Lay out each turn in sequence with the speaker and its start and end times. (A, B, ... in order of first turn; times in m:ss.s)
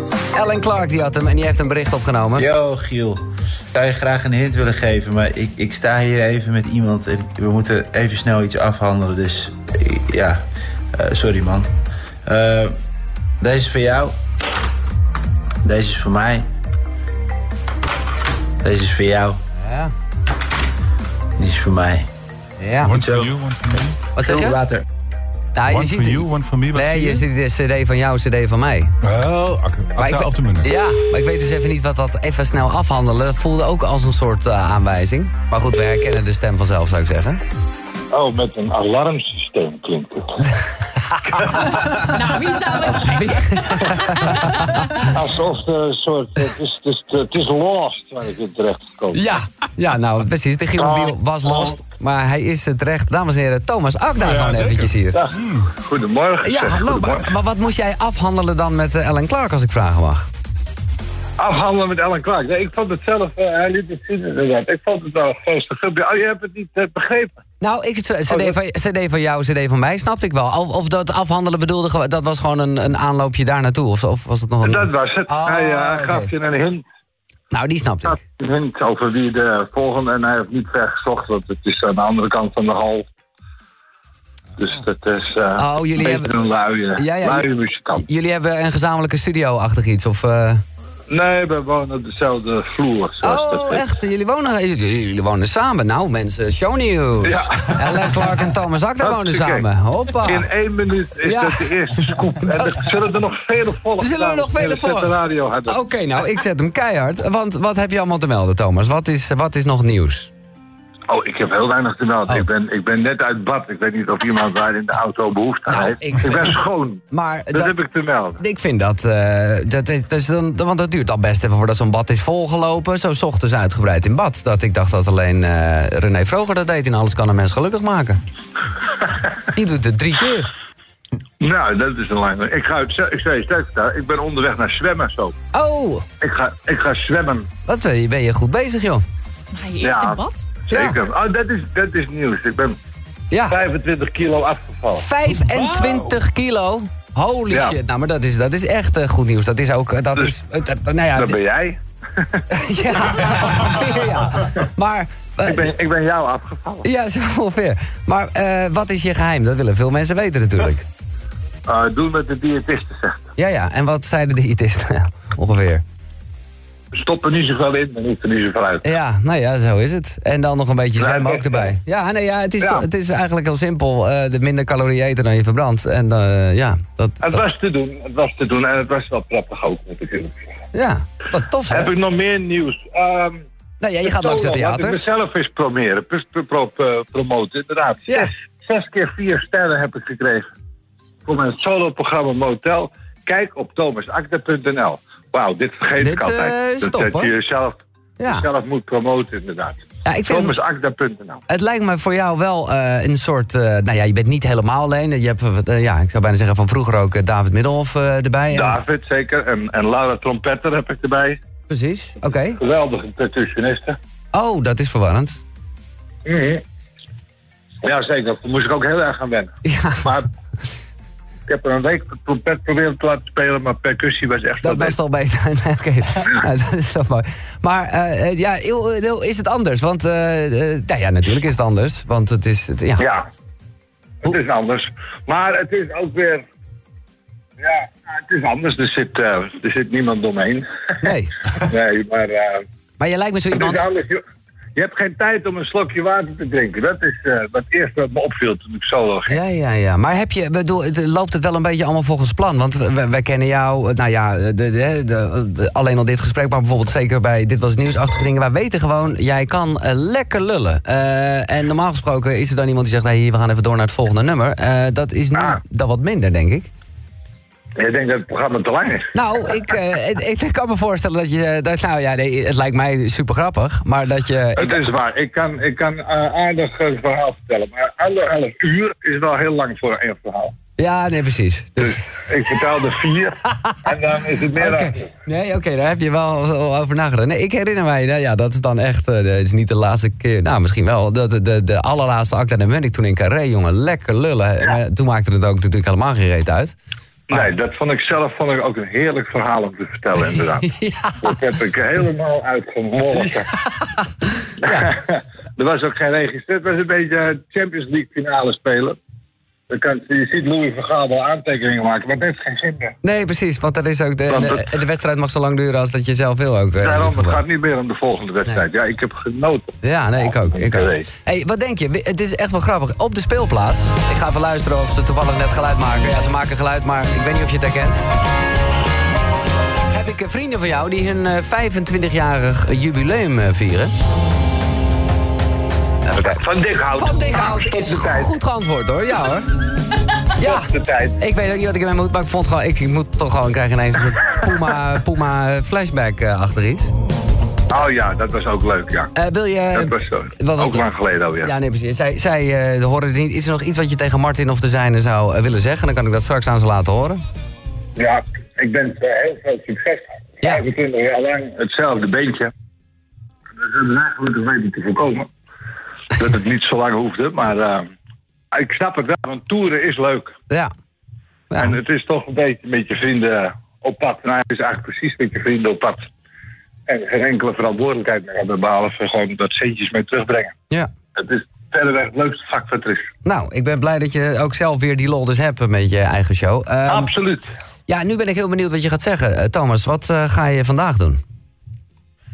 0:00.3-0:02.5 A
0:02.4-0:10.4 B
0:10.9-0:11.7 B
0:12.2-0:12.8 B
0:13.4-0:14.2 B
0:15.6-0:16.5 B
0:18.6-0:19.4 B
0:19.6-0:19.9 A
0:21.4-0:22.1 B
0:22.6-0:23.0 A
0:22.8-0:24.0 C
0:22.9-0:23.3 B
0:24.2-0:24.6 A
0:24.2-0:24.8 B
0:25.5-0:28.9 A
0:25.6-0:27.2 C
0:29.0-0:30.7 C
0:30.0-0:37.4 A
0:38.1-0:40.3 D
0:41.1-0:42.0 A
0:41.9-0:45.0 E
0:42.8-0:44.7 A
0:45.1-0:49.2 D
0:49.1-0:55.2 A
0:50.8-0:51.8 D
0:54.2-0:55.7 C
0:55.1-0:57.3 D
0:56.4-1:00.3 A
1:01.4-1:07.3 D
1:07.6-1:16.3 A
1:08.3-1:08.6 D
1:14.6-1:16.8 D
1:17.5-1:18.2 A
1:18.0-1:23.0 D
1:24.6-1:28.0 D
1:25.6-1:26.3 A
1:27.0-1:30.6 A
1:31.1-1:33.8 D
1:33.2-1:40.4 A
1:37.2-1:38.1 D
1:39.0-1:39.7 D
1:40.2-1:45.8 D
1:41.2-1:41.7 A
1:42.4-1:42.7 A
1:44.0-1:45.1 A
1:45.7-1:50.3 A
1:51.1-1:58.4 D
1:55.7-1:56.5 A
1:57.1-1:57.7 A
1:58.4-2:08.2 A
2:09.5-2:10.5 A
2:11.4-2:15.3 D
2:15.5-2:16.0 A
2:16.2-2:17.5 D
2:17.7-2:19.0 A
2:19.5-2:20.5 E
2:19.8-2:22.8 D
2:20.7-2:21.0 A
2:23.3-2:23.6 A
2:23.5-2:25.0 D
2:25.0-2:31.4 A
2:27.5-2:27.8 D
2:31.1-2:32.4 D
2:32.5-2:35.7 A
2:35.4-2:36.8 D
2:36.8-2:40.8 A
2:41.7-2:43.3 D
2:43.4-2:45.8 A
2:46.9-2:48.8 D
2:48.8-2:57.4 A
2:51.0-2:51.7 D
2:57.2-3:00.3 D
3:00.7-3:01.9 A
3:01.7-3:03.4 D
3:03.8-3:05.1 A
3:04.0-3:10.5 D
3:11.2-3:21.4 D
3:16.0-3:17.3 A
3:18.2-3:18.5 A
3:20.0-3:20.6 A
3:21.5-3:28.8 A
3:28.5-3:31.4 D
3:31.7-3:32.6 A
3:32.6-3:34.0 D
3:34.3-3:35.4 A
3:36.2-3:36.6 D
3:37.8-3:39.5 D
3:39.6-3:40.1 A
3:40.0-3:40.3 D
3:41.5-3:45.0 D
3:44.6-3:53.0 A
3:53.0-3:53.3 D
3:54.2-3:56.4 D
3:57.6-4:00.7 D
4:01.0-4:01.3 A
4:01.6-4:02.6 D
4:03.0-4:03.9 A
4:03.5-4:04.2 D
4:04.8-4:09.4 D
4:09.3-4:26.7 A
4:27.8-4:29.1 D
4:29.1-4:34.9 A
4:34.6-4:40.5 D
4:40.8-4:42.0 A
4:41.8-4:45.1 D
4:44.6-4:56.7 A
4:57.3-5:00.7 D
5:00.2-5:01.4 A
5:01.2-5:03.5 D
5:03.6-5:04.0 A
5:04.6-5:04.9 A
5:04.6-5:09.0 D
5:09.7-5:13.0 D
5:13.0-5:17.4 A
5:14.3-5:14.6 D
5:16.8-5:21.1 D
5:19.8-5:28.0 A
5:29.9-5:33.9 A
5:36.0-5:36.4 A
5:36.4-5:38.3 D
5:36.9-5:39.4 A
5:40.4-5:40.7 A
5:40.4-5:41.2 D
5:41.2-5:46.9 A
5:47.7-5:49.1 D
5:49.1-5:50.8 A
5:49.7-5:51.5 D
5:51.4-5:57.2 A
5:58.0-6:02.5 D
6:03.6-6:05.3 D
6:06.1-6:07.9 D
6:08.5-6:10.3 D
6:11.5-6:11.8 A
6:11.6-6:16.1 D
6:16.9-6:20.5 D
6:21.2-6:23.1 D
6:23.2-6:27.1 A
6:26.9-6:27.5 D
6:27.9-6:31.2 A